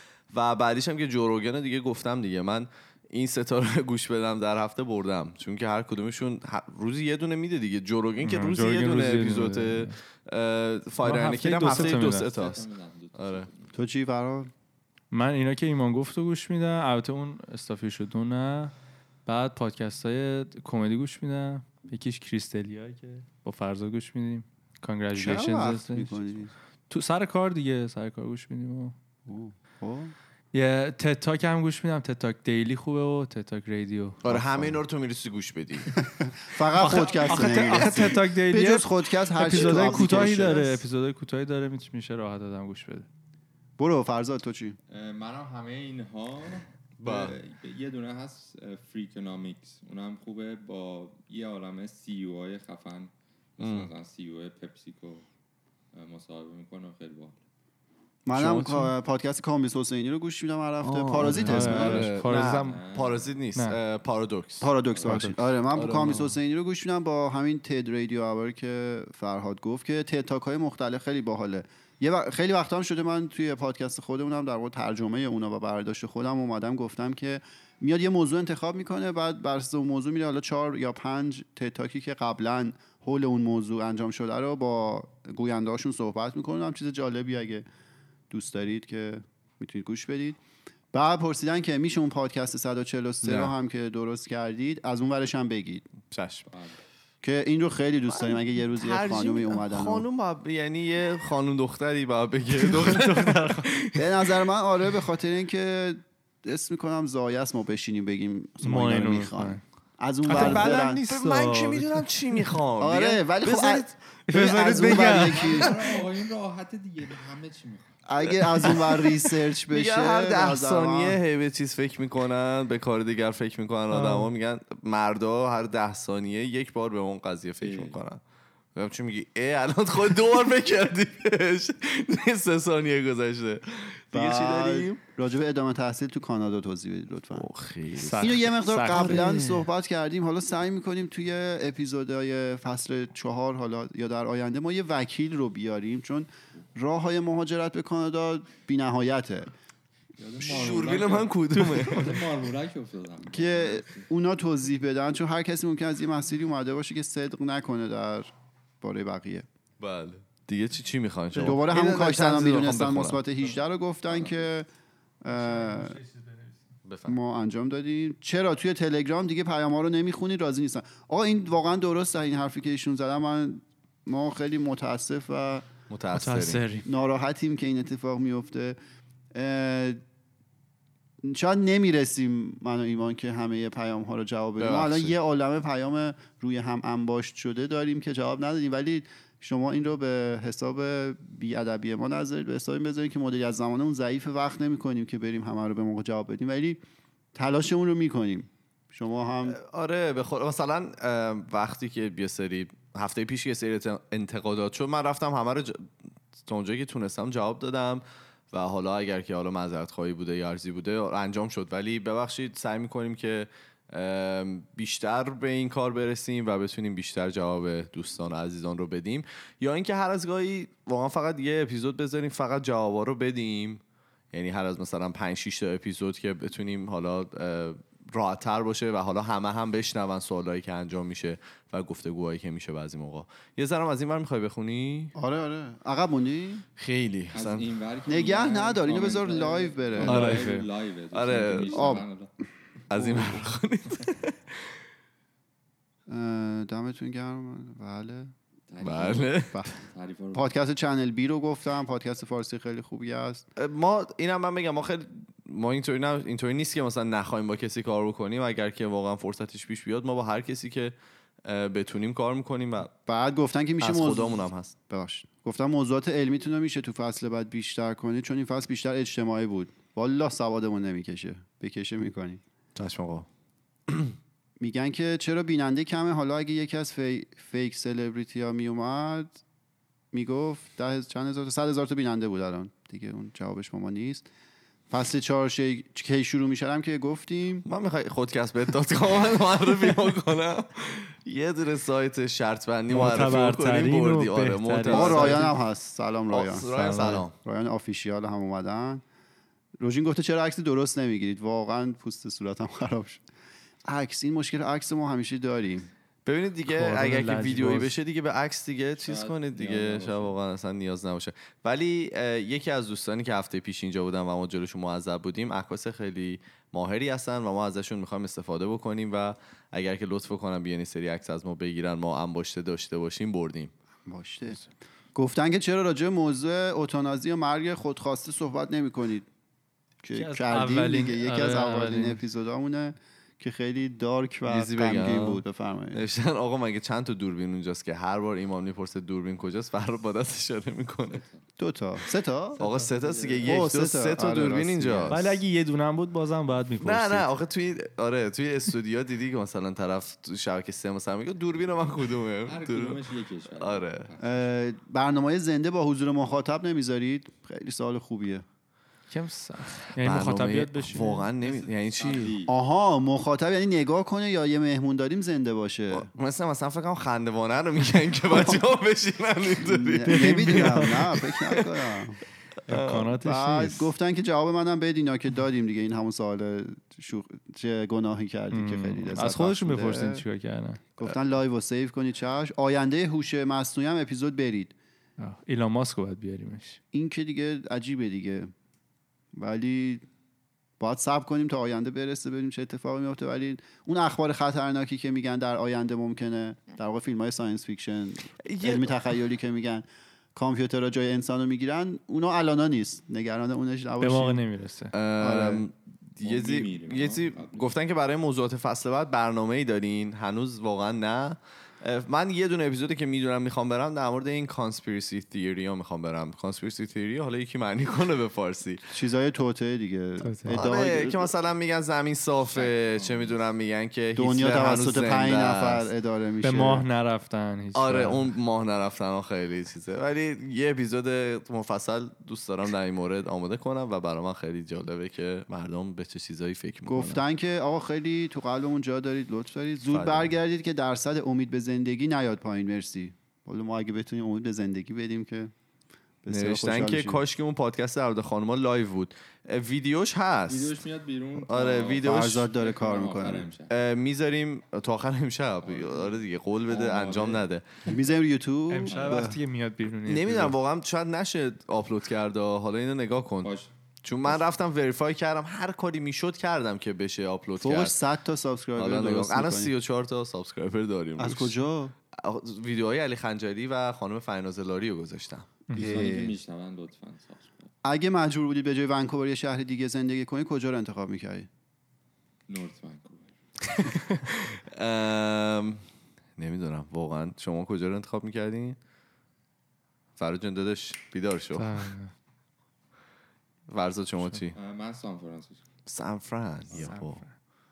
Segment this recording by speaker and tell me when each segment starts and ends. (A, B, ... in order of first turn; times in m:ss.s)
0:00.3-0:13.5 A
0:08.2-0:09.9 B
0:11.0-0:12.3 B
0:11.6-0:13.7 C
0:13.7-0:14.5 D
0:15.1-0:18.7 B
0:19.2-0:26.3 B
0:25.1-0:26.5 D
0:26.9-0:28.9 B
0:29.2-0:30.1 D
0:30.5-0:34.2 B
0:34.2-0:35.9 A
0:34.2-0:34.8 D
0:36.0-0:40.8 D
0:36.7-0:43.1 B
0:37.3-0:38.1 A
0:39.4-0:40.6 A
0:43.8-0:44.8 D
0:44.9-0:55.2 C
0:47.0-0:47.4 A
0:53.6-0:53.9 A
0:55.9-0:57.4 C
0:58.2-1:02.1 D
0:58.3-0:58.9 A
1:00.8-1:06.3 A
1:01.2-1:02.8 B
1:02.2-1:03.3 C
1:04.6-1:27.6 D
1:04.9-1:05.3 C
1:05.1-1:05.3 B
1:28.3-1:30.4 D
1:30.9-1:35.9 D
1:33.2-1:33.5 A
1:36.1-1:36.5 A
1:36.5-1:36.8 C
1:37.2-1:40.0 D
1:38.1-1:44.0 A
1:42.5-1:43.7 B
1:43.9-1:51.0 D
1:48.6-1:49.6 B
1:50.3-1:52.5 B
1:50.3-1:54.0 A
1:52.8-1:55.8 D
1:54.3-1:55.7 B
1:54.7-1:57.9 C
1:58.0-2:01.2 D
1:58.2-1:59.2 A
1:59.7-2:08.2 A
2:03.9-2:04.3 B
2:07.6-2:08.0 C
2:08.7-2:15.0 A
2:14.1-2:17.5 D
2:17.3-2:19.7 A
2:18.0-2:19.3 B
2:18.2-2:29.5 D
2:30.2-2:34.1 C
2:30.4-2:32.2 A
2:31.7-2:32.2 B
2:33.3-2:39.4 D
2:39.8-2:43.2 A
2:41.3-2:44.7 D
2:44.1-2:44.4 C
2:45.2-2:46.0 D
2:45.3-2:46.7 B
2:46.8-2:47.2 A
2:47.0-2:55.6 D
2:55.9-2:56.6 A
2:56.1-2:56.9 B
2:56.8-2:58.8 D
2:59.3-3:00.0 D
3:01.2-3:16.8 D
3:04.6-3:05.2 A
3:17.3-3:19.6 D
3:19.4-3:25.9 A
3:26.4-3:55.1 A
3:55.2-3:56.6 D
3:56.8-3:57.7 A
3:57.3-4:02.3 C
3:58.1-4:00.2 D
4:00.0-4:00.7 B
4:00.0-4:00.4 A
4:01.1-4:02.0 A
4:01.7-4:02.0 D
4:02.9-4:04.7 A
4:03.0-4:03.2 D
4:06.1-4:08.3 D
4:08.7-4:10.5 C
4:08.8-4:09.6 A
4:10.3-4:13.4 D
4:13.6-4:22.9 A
4:23.1-4:32.4 D
4:23.8-4:24.7 A
4:32.8-4:33.3 A
4:33.9-4:34.1 A
4:34.6-4:39.4 D
4:40.1-4:44.3 D
4:44.9-4:47.6 D
4:47.6-4:55.5 A
4:52.9-4:55.6 B
4:54.9-4:59.0 D
4:56.3-4:57.3 A
4:56.7-4:57.2 B
4:59.8-5:03.2 D
5:03.8-5:05.9 D
5:06.2-5:23.7 A
5:06.7-5:08.0 B
5:09.0-5:10.4 C
5:24.0-5:24.6 D
5:25.1-5:29.3 D
5:30.0-5:36.0 D
5:30.1-5:32.2 B
5:34.4-5:41.2 A
5:41.1-5:41.4 C
5:41.6-5:42.6 D
5:42.6-5:43.6 C
5:42.6-5:45.4 A
5:43.4-5:45.2 D
5:45.1-5:47.3 B
5:46.8-5:53.0 A
5:52.4-5:54.5 C
5:53.6-5:54.1 A
5:54.2-5:58.4 D
5:59.1-6:01.3 B
6:00.0-6:02.4 A
6:01.4-6:02.6 C
6:02.5-6:06.1 D
6:05.9-6:12.0 A
6:08.3-6:08.6 D
6:09.6-6:12.2 D
6:10.0-6:11.1 B
6:12.7-6:13.1 A
6:12.7-6:13.9 B
6:13.2-6:20.2 D
6:18.5-6:20.8 B
6:21.0-6:24.7 D
6:25.2-6:26.8 B
6:26.9-6:28.5 D
6:29.3-6:30.0 D
6:30.8-6:44.4 D
6:38.4-6:39.0 A
6:44.0-6:44.9 B
6:44.9-6:58.8 A
6:45.2-6:45.6 D
6:46.2-6:47.7 C
6:58.9-7:01.3 D
7:00.2-7:00.6 B
7:00.5-7:05.9 A
7:02.4-7:03.4 C
7:04.2-7:06.9 D
7:06.4-7:08.3 B
7:07.7-7:17.2 A
7:16.8-7:25.5 D
7:19.9-7:20.3 A
7:26.2-7:27.2 D
7:26.3-7:30.7 A
7:30.5-7:33.7 C
7:31.4-7:32.5 A
7:32.0-7:33.5 D
7:33.7-7:37.6 A
7:35.6-7:38.0 C
7:37.9-7:39.4 D
7:38.7-7:40.5 B
7:38.8-7:39.2 C
7:40.1-7:43.5 A
7:43.4-7:43.7 C
7:44.0-7:48.0 A
7:47.6-7:49.7 D
7:48.8-7:51.6 A
7:51.2-7:51.9 D
7:52.1-7:55.5 A
7:55.7-7:56.1 B
7:55.7-7:57.7 C
7:55.8-7:56.4 D
7:57.8-8:01.5 D
8:02.5-8:03.3 C
8:03.7-8:05.8 A
8:06.4-8:08.8 A
8:10.2-8:11.9 A
8:11.5-8:12.1 B
8:13.7-8:14.6 A
8:14.5-8:15.6 C
8:15.9-8:17.2 A
8:16.7-8:17.3 B